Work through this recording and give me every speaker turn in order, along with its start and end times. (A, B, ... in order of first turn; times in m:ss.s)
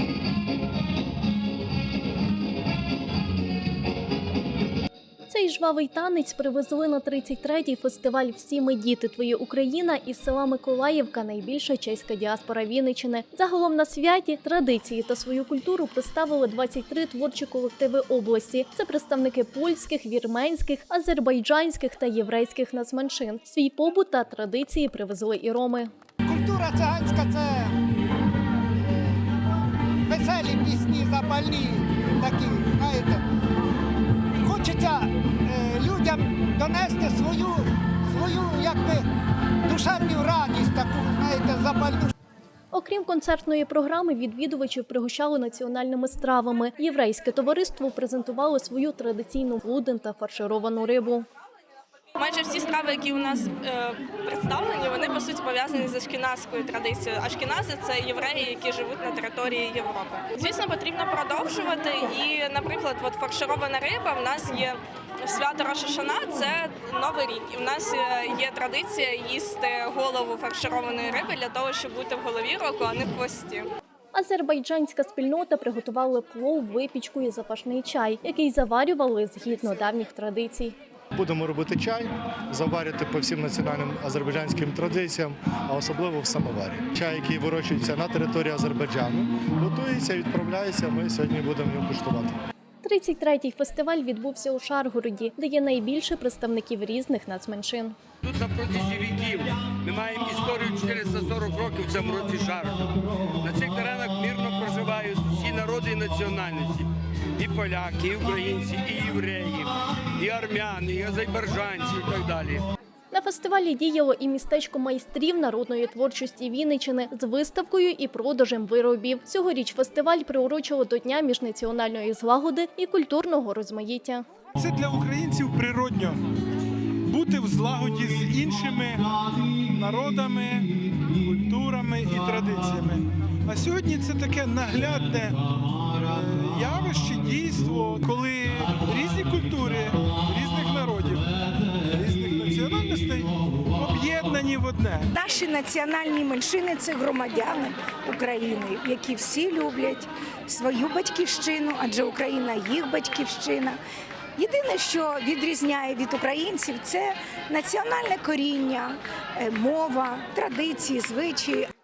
0:05.3-0:25.9 A
0:26.2-0:27.8 B
0:28.8-0:29.2 B
0:30.1-0:33.2 B
0:34.4-0:39.1 B
0:39.6-0:42.1 B
0:42.7-0:51.3 A
0:52.2-1:13.7 C
1:14.1-1:20.8 A
1:21.2-1:32.4 D
1:32.8-1:38.0 A
1:38.2-1:52.6 E
1:53.1-2:04.3 A
2:04.6-2:06.2 F
2:07.1-2:25.1 F
2:25.1-2:33.8 G
2:34.4-2:41.7 G